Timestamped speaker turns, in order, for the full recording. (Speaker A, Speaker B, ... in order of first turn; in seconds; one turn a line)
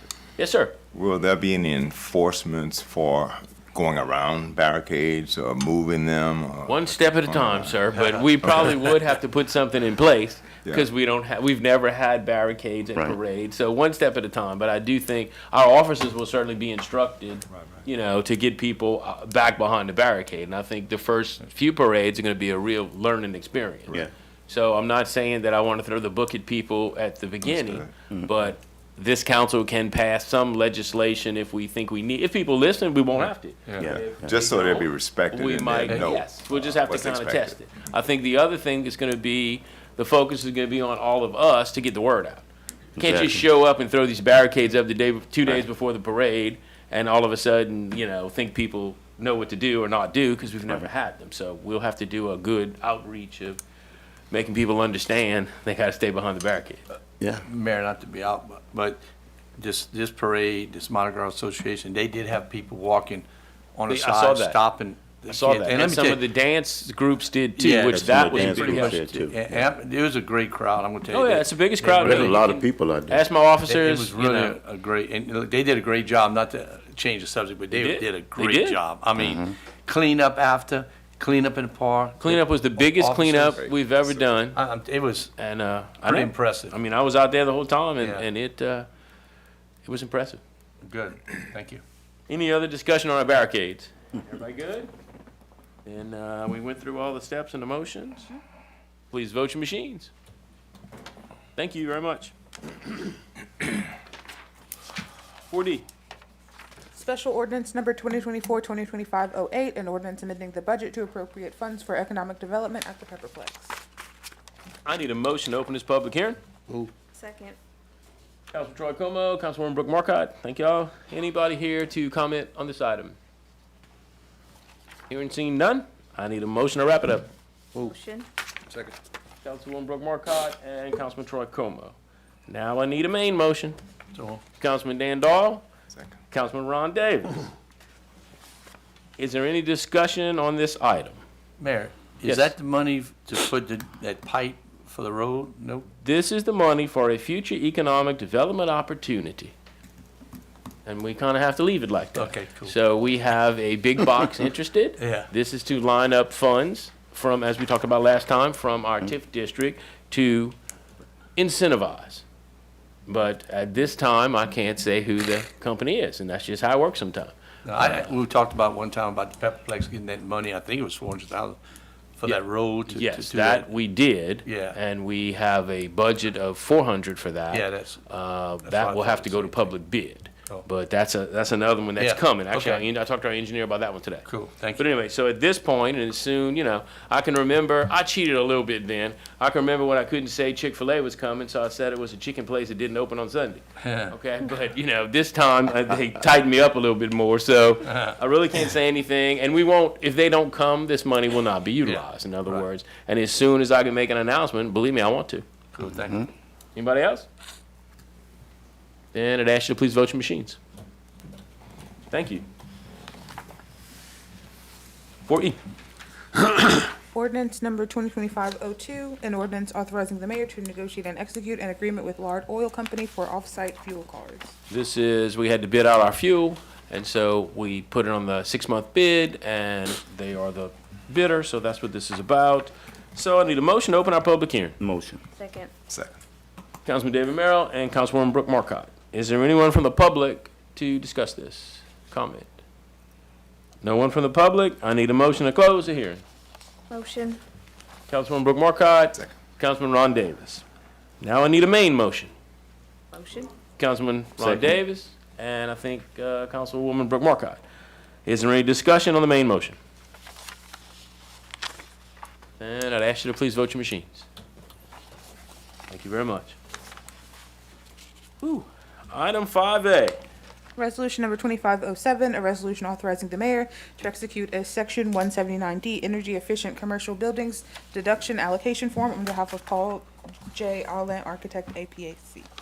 Speaker A: 0.4-0.8
Speaker B: 0.9-7.8
Speaker A: 6.7-42.5
Speaker C: 7.9-8.9
Speaker B: 27.4-27.9
Speaker D: 33.8-34.3
Speaker B: 33.8-37.6
Speaker A: 43.0-53.6
Speaker D: 43.0-43.5
Speaker A: 54.3-56.8
Speaker C: 57.4-59.0
Speaker C: 59.6-66.2
Speaker A: 63.9-64.6
Speaker A: 65.3-69.2
Speaker C: 67.6-72.6
Speaker D: 67.8-69.7
Speaker A: 71.1-72.5
Speaker D: 72.2-73.2
Speaker A: 73.1-74.6
Speaker C: 73.7-83.7
Speaker A: 77.7-78.8
Speaker D: 79.2-79.5
Speaker A: 82.2-84.6
Speaker B: 83.6-84.2
Speaker C: 84.5-85.3
Speaker A: 85.4-88.9
Speaker C: 86.0-86.8
Speaker C: 88.0-88.2
Speaker A: 89.8-90.4
Speaker C: 90.8-91.8
Speaker A: 92.3-94.9
Speaker A: 95.8-98.3
Speaker A: 99.1-100.1
Speaker A: 101.6-102.3
Speaker A: 105.5-105.8
Speaker E: 106.9-113.8
Speaker A: 114.8-116.4
Speaker F: 117.1-117.6
Speaker A: 118.5-123.2
Speaker A: 125.1-127.3
Speaker F: 127.8-128.3
Speaker C: 128.7-129.0
Speaker A: 129.4-132.0
Speaker A: 132.5-133.8
Speaker C: 134.1-134.4
Speaker A: 134.6-135.7
Speaker A: 136.3-137.5
Speaker A: 139.2-141.2
Speaker C: 141.6-145.9
Speaker A: 142.2-142.5
Speaker A: 146.0-149.5
Speaker A: 150.9-160.6
Speaker C: 152.2-152.7
Speaker C: 155.0-155.3
Speaker A: 161.4-162.2
Speaker A: 163.1-168.1
Speaker C: 167.7-171.6
Speaker C: 172.2-173.7
Speaker A: 172.2-205.4
Speaker C: 174.4-174.8
Speaker C: 177.5-178.0
Speaker C: 178.6-179.8
Speaker C: 182.0-182.8
Speaker C: 184.3-184.9
Speaker C: 193.8-194.1
Speaker C: 197.9-198.2
Speaker C: 201.8-202.7
Speaker C: 205.7-206.3
Speaker A: 206.8-207.3
Speaker A: 209.1-210.6
Speaker A: 212.1-212.4
Speaker A: 215.3-215.6
Speaker E: 217.1-224.6
Speaker A: 224.7-234.8
Speaker D: 234.8-235.2
Speaker F: 235.4-235.7
Speaker B: 235.9-236.2
Speaker A: 236.8-242.6
Speaker A: 243.8-246.2
Speaker F: 246.9-247.4
Speaker A: 248.1-250.6
Speaker A: 251.2-252.3
Speaker F: 253.1-253.5
Speaker A: 253.8-257.6
Speaker A: 258.3-259.8
Speaker A: 262.6-264.3
Speaker A: 265.9-266.6
Speaker A: 268.4-270.2
Speaker E: 270.8-282.5